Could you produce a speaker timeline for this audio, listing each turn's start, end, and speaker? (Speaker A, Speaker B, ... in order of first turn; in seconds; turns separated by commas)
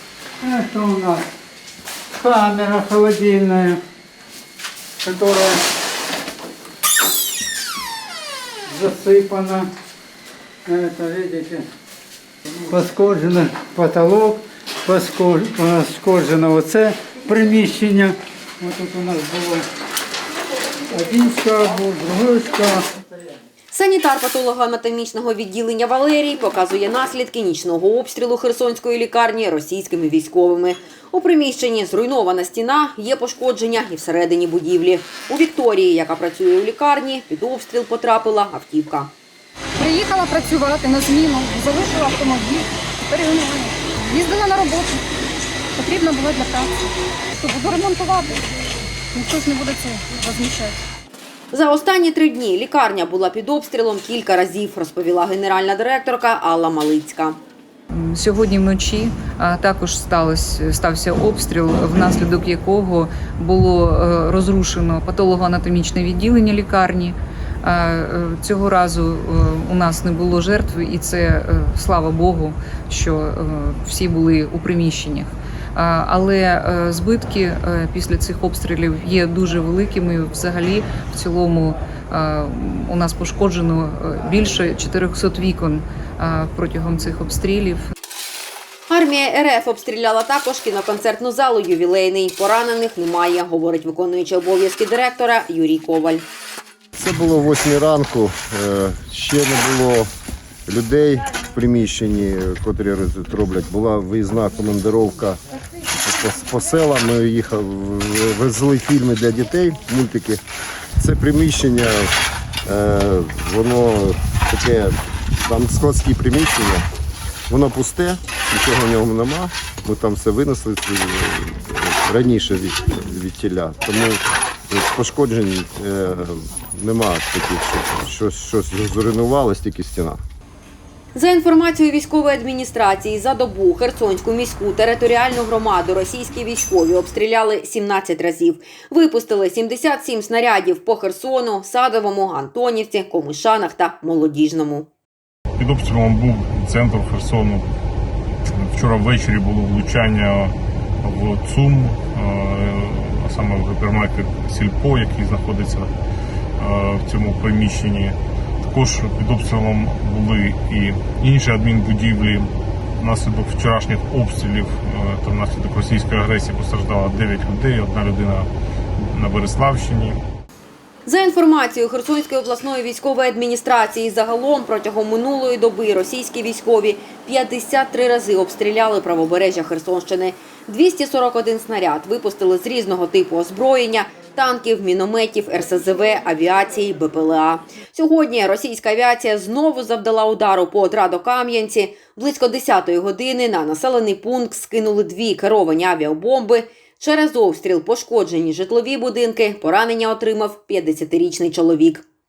Speaker A: 0.4-1.2, Speaker A: 2.1-3.8, Speaker A: 5.0-5.6, Speaker A: 8.7-9.7, Speaker A: 10.6-11.7, Speaker A: 12.7-19.7, Speaker A: 20.9-22.9, Speaker B: 23.7-39.1, Speaker C: 39.8-45.0, Speaker C: 45.8-48.4, Speaker C: 49.1-50.8, Speaker B: 51.5-57.4, Speaker D: 57.9-87.8, Speaker B: 88.9-96.2, Speaker E: 96.9-100.1, Speaker E: 100.7-105.4, Speaker E: 105.9-110.4, Speaker E: 111.0-112.1, Speaker E: 112.7-116.8, Speaker E: 117.5-130.2, Speaker B: 131.1-144.9, Speaker F: 145.6-147.7, Speaker F: 148.6-155.9, Speaker F: 156.6-168.5, Speaker F: 169.1-170.2, Speaker B: 171.1-202.0